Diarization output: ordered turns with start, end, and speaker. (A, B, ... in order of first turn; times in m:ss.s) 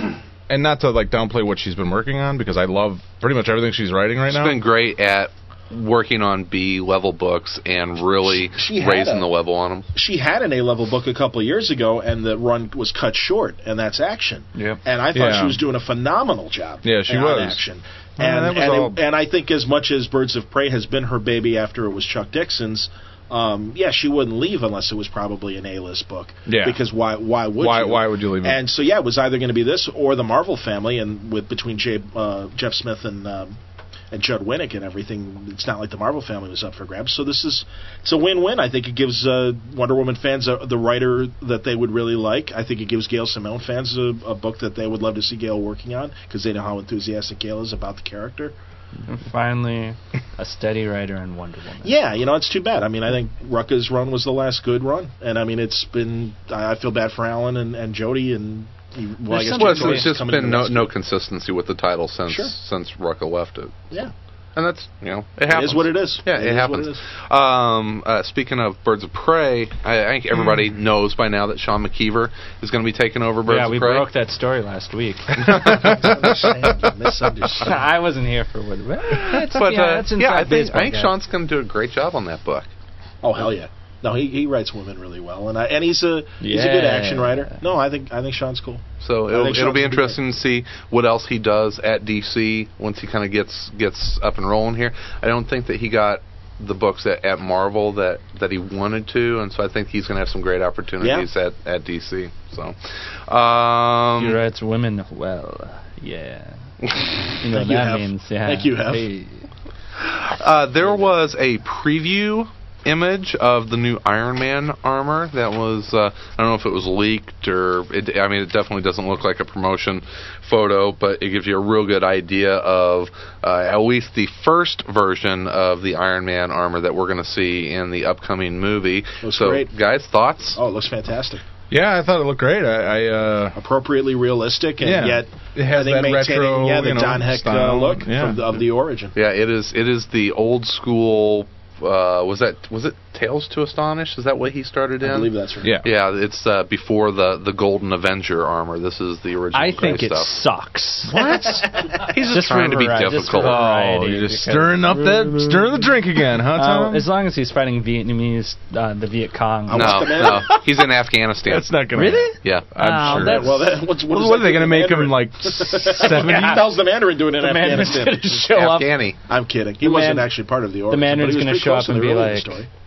0:00.5-0:04.6 A
0:04.3-0:09.8 B
0:08.3-0:09.2 C
0:09.9-0:33.6 C
0:14.5-0:14.8 D
0:15.1-0:15.6 A
0:16.8-0:17.6 A
0:18.2-0:19.0 A
0:26.5-0:26.8 A
0:27.6-0:28.6 A
0:34.1-0:48.5 C
0:49.1-0:52.0 D
0:51.8-1:00.9 C
0:59.3-1:00.1 D
0:59.5-1:03.8 B
1:02.3-1:02.5 C
1:04.6-1:14.1 B
1:05.5-1:07.0 C
1:13.4-1:15.6 D
1:15.4-1:17.8 C
1:15.4-1:16.8 A
1:17.6-1:21.1 D
1:19.3-1:22.7 B
1:23.2-1:30.2 C
1:26.4-1:27.6 D
1:29.0-1:44.4 B
1:41.0-1:41.3 C
1:44.2-1:46.6 D
1:47.4-1:49.4 D
1:47.4-1:49.0 C
1:50.0-2:10.6 B
2:09.2-2:09.7 C
2:10.5-2:11.4 C
2:11.7-2:13.6 A
2:13.5-2:19.1 C
2:14.8-2:18.4 A
2:19.1-2:30.3 B
2:25.0-2:25.8 C
2:25.6-2:25.9 A
2:29.5-2:31.1 D
2:31.1-2:31.7 A
2:32.0-2:33.6 B
2:32.1-2:35.8 D
2:33.3-2:37.1 A
2:36.5-2:40.3 D
2:39.7-2:40.6 C
2:39.7-2:41.7 B
2:41.4-2:46.7 A
2:41.9-2:43.7 D
2:42.4-2:42.7 B
2:43.0-2:48.4 C
2:46.0-2:46.6 D
2:47.4-2:49.0 D
2:48.5-2:49.2 B
2:49.3-2:52.7 C
2:49.8-2:50.3 D
2:50.9-2:52.6 D